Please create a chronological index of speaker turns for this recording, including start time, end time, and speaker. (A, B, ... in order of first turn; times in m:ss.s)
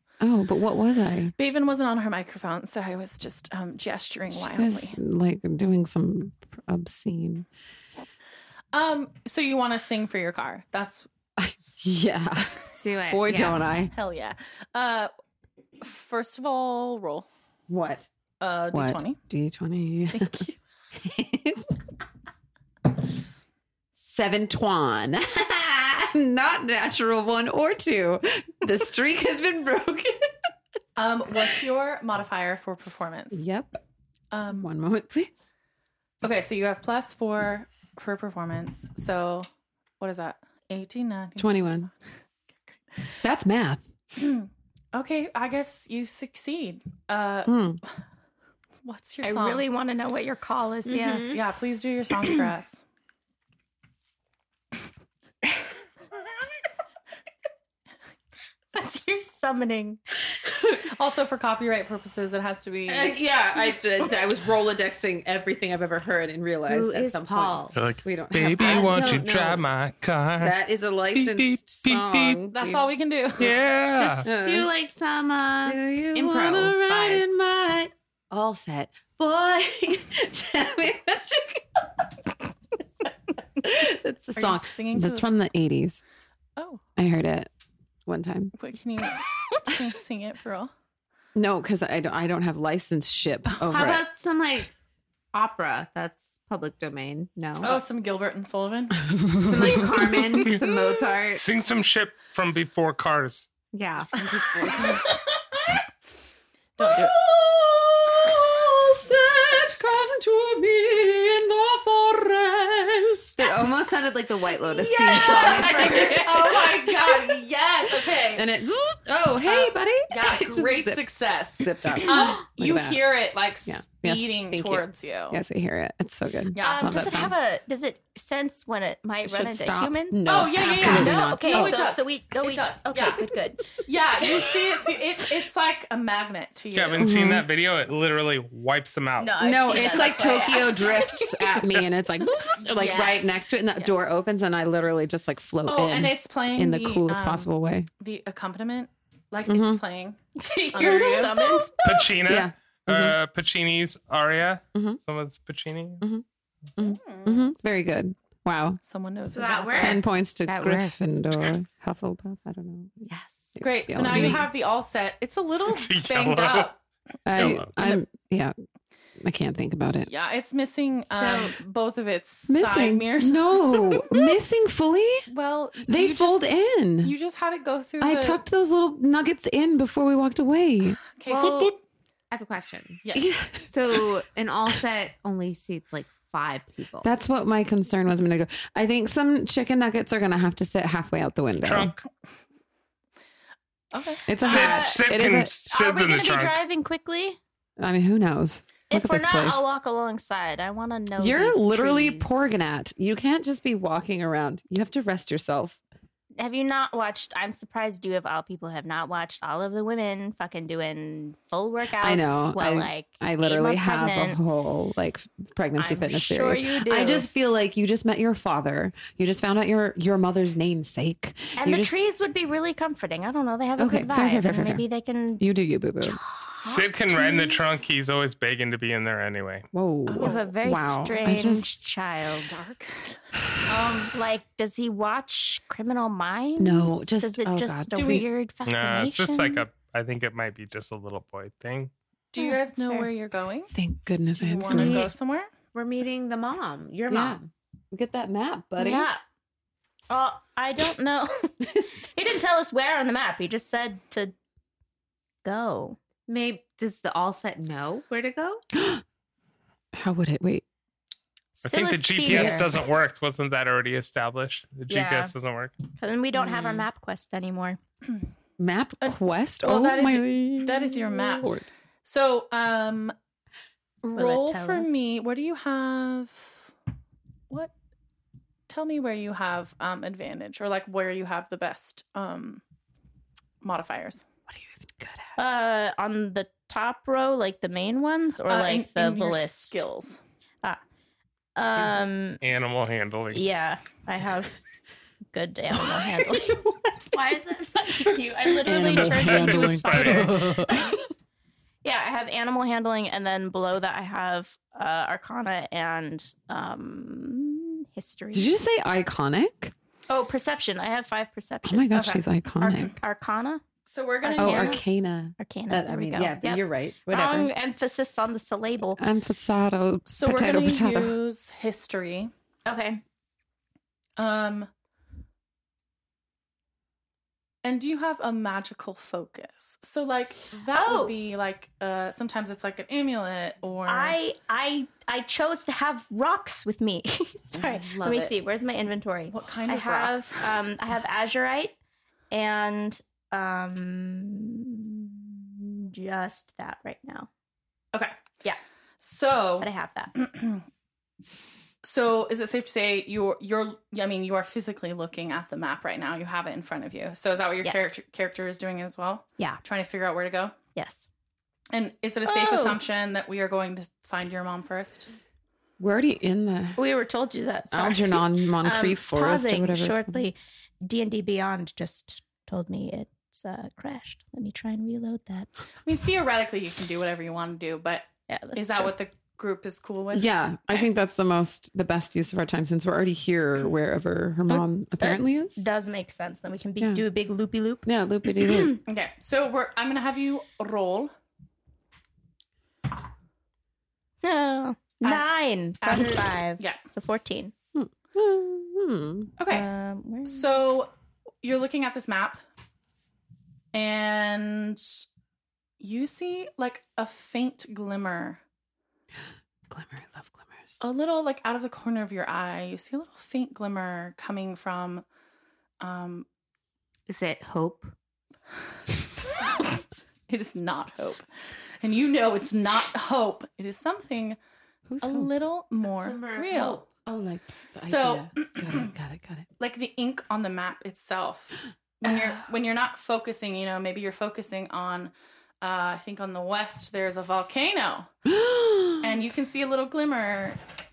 0:00.2-0:01.3 A
0:01.4-0:05.0 B
0:04.3-0:07.5 A
0:08.7-0:11.1 B
0:11.4-0:13.9 A
0:12.8-0:13.6 C
0:13.9-0:15.1 B
0:15.8-0:17.3 B
0:17.7-0:18.1 A
0:18.4-0:19.2 B
0:18.7-0:21.8 A
0:20.1-0:20.6 B
0:24.0-0:30.3 A
0:31.0-0:33.4 B
0:33.3-0:33.8 A
0:34.3-0:34.7 B
0:34.5-0:35.5 A
0:36.2-0:39.5 B
0:40.0-0:41.9 B
0:41.4-0:41.9 A
0:43.2-0:43.9 A
0:44.2-0:47.7 B
0:47.5-0:47.8 A
0:48.8-0:49.7 B
0:49.2-0:51.4 D
0:50.9-0:51.4 C
0:51.3-0:52.8 B
0:58.7-1:00.0 D
1:00.8-1:03.2 B
1:02.9-1:09.6 A
1:06.7-1:07.8 C
1:07.8-1:10.6 E
1:08.6-1:09.6 C
1:10.4-1:12.9 A
1:11.1-1:12.4 E
1:12.5-1:13.6 B
1:13.4-1:14.3 E
1:14.2-1:17.2 C
1:14.2-1:14.7 A
1:15.6-1:22.3 A
1:23.6-1:26.0 A
1:24.4-1:25.3 B
1:26.6-1:26.8 B
1:27.0-1:27.5 A
1:28.1-1:28.5 A
1:28.6-1:30.7 B
1:31.4-1:34.0 A
1:33.7-1:34.7 C
1:35.3-1:37.8 C
1:37.6-1:39.1 B
1:39.1-1:40.6 A
1:39.4-1:41.4 C
1:41.3-1:43.5 E
1:43.7-1:44.8 C
1:44.2-1:45.1 A
1:44.2-1:45.2 B
1:46.8-1:47.2 B
1:46.8-1:53.6 A
1:53.4-1:56.6 C
1:54.7-1:58.5 B
1:55.1-1:57.4 A
1:58.3-2:01.0 A
1:59.4-2:05.4 B
2:01.6-2:03.0 A
2:03.7-2:07.3 A
2:06.5-2:07.2 B
2:06.6-2:13.7 D
2:09.2-2:11.8 A
2:10.3-2:17.2 B
2:16.7-2:19.4 E
2:17.0-2:17.5 A
2:19.2-2:21.4 D
2:19.4-2:27.9 A
2:19.7-2:20.7 B
2:22.4-2:23.4 B
2:25.7-2:30.2 B
2:29.5-2:29.8 A
2:30.4-2:31.7 D
2:30.7-2:31.6 B
2:30.8-2:31.3 A
2:31.8-2:36.0 E
2:32.2-2:33.2 A
2:34.7-2:35.0 A
2:36.8-2:38.8 A
2:36.8-2:37.5 B
2:38.8-2:40.0 B
2:39.3-2:41.3 C
2:39.8-2:44.5 A
2:43.1-2:44.4 C
2:43.6-2:46.8 B
2:45.7-2:46.7 E
2:47.2-2:48.6 A
2:47.4-2:47.8 E
2:49.2-2:50.1 A
2:50.0-2:54.2 B
2:51.1-2:51.6 C
2:52.5-2:55.3 A
2:55.3-2:56.5 B
2:55.8-2:57.2 A
2:57.0-2:58.4 B
2:58.0-3:01.0 A
3:01.1-3:01.8 B
3:01.3-3:01.8 C
3:02.3-3:03.0 C
3:03.0-3:03.3 B
3:03.2-3:04.1 A
3:03.7-3:07.1 C
3:07.0-3:11.9 A
3:11.6-3:12.0 E
3:13.9-3:14.3 B
3:14.3-3:15.5 A
3:14.4-3:16.6 E
3:14.4-3:15.0 D
3:15.7-3:17.4 D
3:17.8-3:19.6 A
3:18.9-3:22.4 D
3:21.2-3:25.8 A
3:26.4-3:34.4 D
3:32.0-3:42.0 A
3:35.8-3:37.3 D
3:41.6-3:45.4 D
3:43.8-3:44.8 A
3:45.4-3:46.2 A
3:46.0-3:47.5 D
3:46.6-3:49.7 E
3:49.7-3:51.8 A
3:50.1-3:50.5 B
3:50.2-3:52.6 D
3:51.1-3:51.4 B
3:52.4-3:54.1 B
3:54.0-3:59.7 D
3:56.6-3:58.3 A
3:57.9-3:58.3 B
3:58.6-4:01.9 E
4:02.3-4:03.7 B
4:02.4-4:03.1 D
4:03.7-4:05.1 A
4:04.4-4:05.5 B
4:04.7-4:05.1 C
4:05.7-4:07.5 C
4:07.1-4:07.4 A
4:07.9-4:09.1 A
4:08.8-4:09.2 D
4:10.1-4:14.4 D
4:15.4-4:16.0 D
4:16.3-4:18.6 C
4:18.7-4:19.0 A
4:19.9-4:20.6 A
4:21.6-4:22.6 D
4:21.6-4:25.8 E
4:22.3-4:22.7 A
4:24.9-4:25.3 D
4:26.0-4:27.8 D
4:26.4-4:26.8 A
4:28.6-4:31.6 A
4:29.0-4:33.2 B
4:34.0-4:36.7 B
4:34.1-4:35.0 D
4:38.7-4:42.6 B
4:43.6-4:44.3 B
4:44.5-4:45.3 A
4:45.4-4:49.8 D
4:48.5-4:50.2 B
4:51.6-4:52.4 D
4:52.4-4:53.4 E
4:53.3-4:54.6 D
4:55.3-5:01.0 D
4:56.4-4:56.9 A
4:58.6-5:00.9 A
4:58.7-5:00.4 E
5:01.8-5:08.5 D
5:08.3-5:09.7 A
5:10.1-5:13.6 D
5:11.6-5:12.9 A
5:11.9-5:12.2 B
5:13.8-5:14.8 B
5:14.2-5:14.8 D
5:14.4-5:17.5 A
5:15.4-5:19.0 D
5:19.0-5:21.2 A
5:20.1-5:22.3 B
5:22.7-5:23.0 D
5:24.2-5:24.7 B
5:27.6-5:34.2 B
5:30.7-5:31.2 D
5:33.9-5:41.8 D
5:37.6-5:38.3 B
5:39.3-5:40.6 B
5:42.3-5:47.3 D
5:47.9-5:48.2 B
5:49.0-5:50.6 B
5:49.6-5:50.2 D
5:51.8-6:00.6 B
5:57.6-5:58.0 D
6:00.8-6:01.1 D
6:01.7-6:05.1 B
6:02.2-6:02.8 D
6:05.8-6:06.8 A
6:06.8-6:15.5 D
6:07.7-6:10.2 A
6:15.8-6:20.3 B
6:18.3-6:18.9 D
6:20.1-6:25.6 A
6:24.5-6:27.9 D
6:26.8-6:27.1 A
6:27.8-6:28.8 A
6:28.4-6:28.8 D
6:28.9-6:31.1 B
6:34.2-6:37.5 D
6:35.8-6:36.8 B
6:37.8-6:39.3 A
6:39.4-6:39.7 B
6:39.5-6:40.5 D
6:40.2-6:42.4 B
6:43.7-6:45.0 B
6:45.8-6:48.4 B
6:49.7-6:50.7 A
6:50.8-6:55.0 B
6:55.8-6:56.3 B
6:57.1-6:57.9 C
7:00.3-7:01.3 B
7:01.8-7:04.4 B
7:04.9-7:05.3 A
7:05.0-7:06.8 B
7:05.9-7:06.9 C
7:06.9-7:09.5 A
7:07.8-7:08.9 B
7:09.6-7:18.1 B
7:18.3-7:19.2 A
7:19.0-7:20.6 B